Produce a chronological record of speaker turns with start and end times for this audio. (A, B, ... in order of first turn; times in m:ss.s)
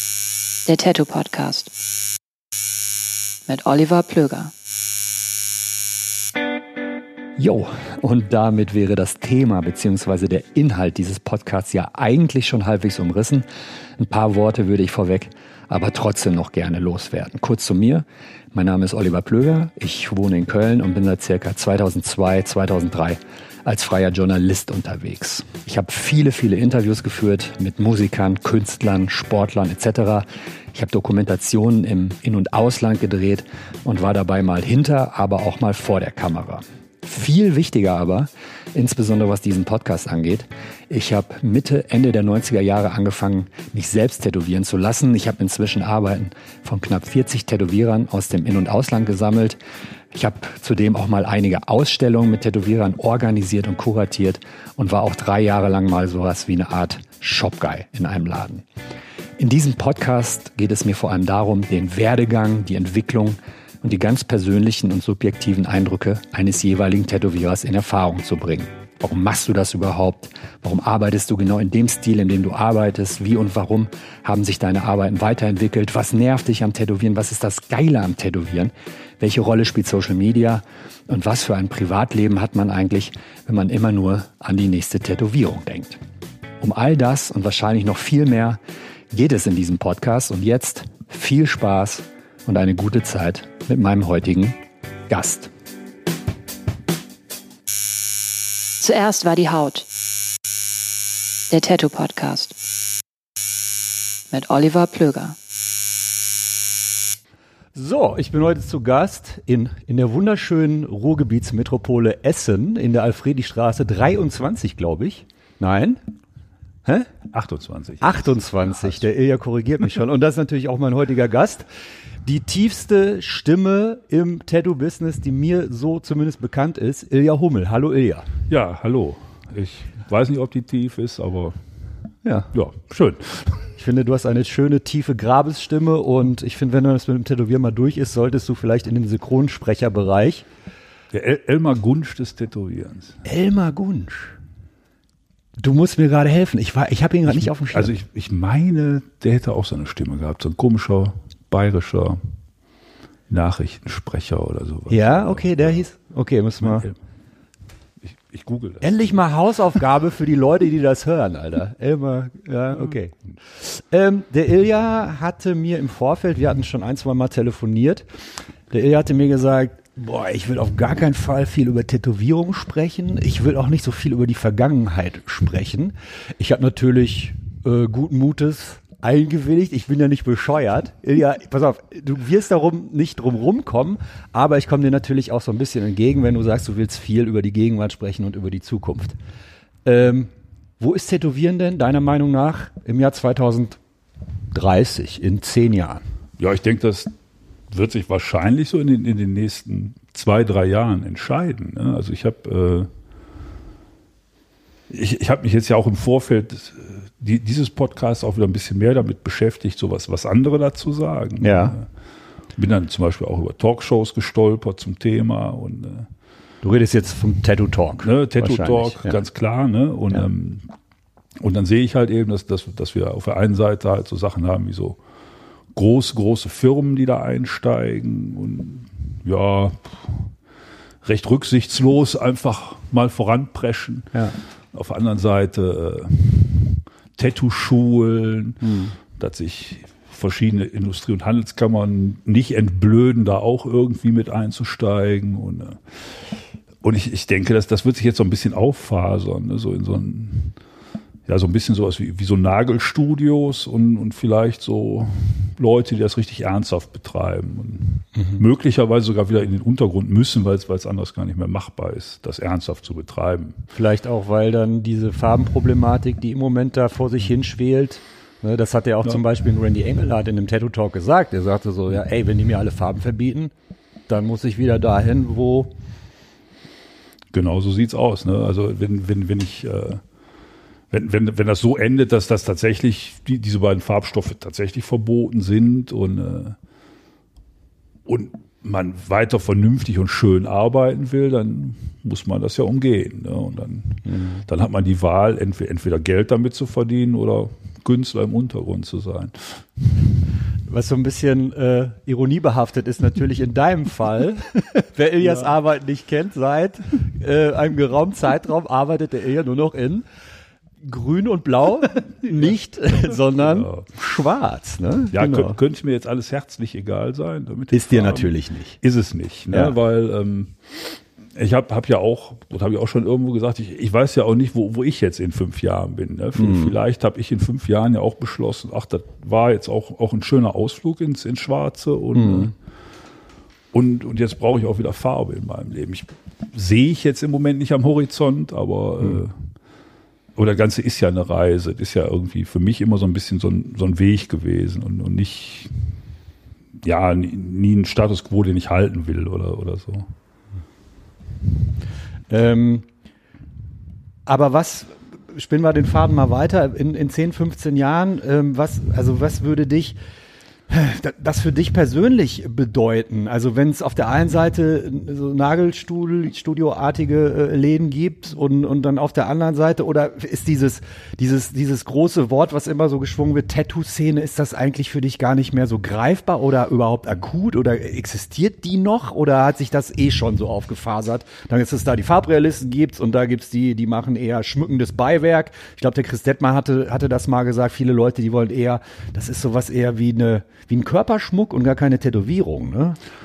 0:00.6-0:01.7 A
0:03.5-0:04.5 A
0:07.4-0:13.4 B
0:14.0-0:49.6 B
0:50.1-0:58.6 B
0:59.4-1:26.0 B
1:26.6-1:28.6 B
1:29.1-1:35.5 B
1:38.8-1:39.9 A
1:41.5-1:42.5 A
1:44.3-1:45.4 A
1:47.7-1:56.0 B
1:56.8-1:57.1 B
1:57.3-1:59.0 C
1:58.0-2:01.6 B
2:02.2-2:08.3 B
2:08.5-2:11.6 C
2:12.2-2:12.5 B
2:12.5-2:13.6 C
2:13.8-2:20.4 B
2:21.1-2:23.2 C
2:23.2-2:24.4 B
2:25.6-2:27.9 B
2:27.3-2:32.2 C
2:33.3-2:35.9 C
2:34.9-2:36.9 B
2:36.6-2:36.9 C
2:38.0-2:39.0 C
2:38.8-2:48.0 B
2:48.7-3:09.2 B
3:09.8-3:13.8 B
3:14.5-3:16.0 B
3:16.4-3:17.1 C
3:17.7-3:22.9 C
3:24.9-3:31.9 C
3:31.4-3:31.8 B
3:32.6-3:36.1 C
3:36.6-3:39.2 B
3:38.0-3:40.7 C
3:41.4-3:45.0 C
3:45.7-3:50.3 C
3:51.0-3:54.1 C
3:54.7-4:10.6 C
3:58.6-3:59.0 B
4:11.3-4:23.6 C
4:23.7-4:33.5 B
4:34.1-4:35.7 B
4:37.3-4:40.0 C
4:40.9-4:46.6 C
4:48.0-4:59.6 C
4:54.0-4:54.4 B
5:00.7-5:10.0 B
5:10.8-5:15.6 B
5:13.1-5:13.9 C
5:15.1-5:32.5 C
5:17.7-5:18.8 B
5:26.4-5:26.7 B
5:32.2-5:32.5 B
5:33.7-5:39.4 C
5:40.4-5:45.8 C
5:46.8-5:50.1 C
5:52.3-5:52.8 B
5:54.2-6:00.0 B
6:00.7-6:33.0 B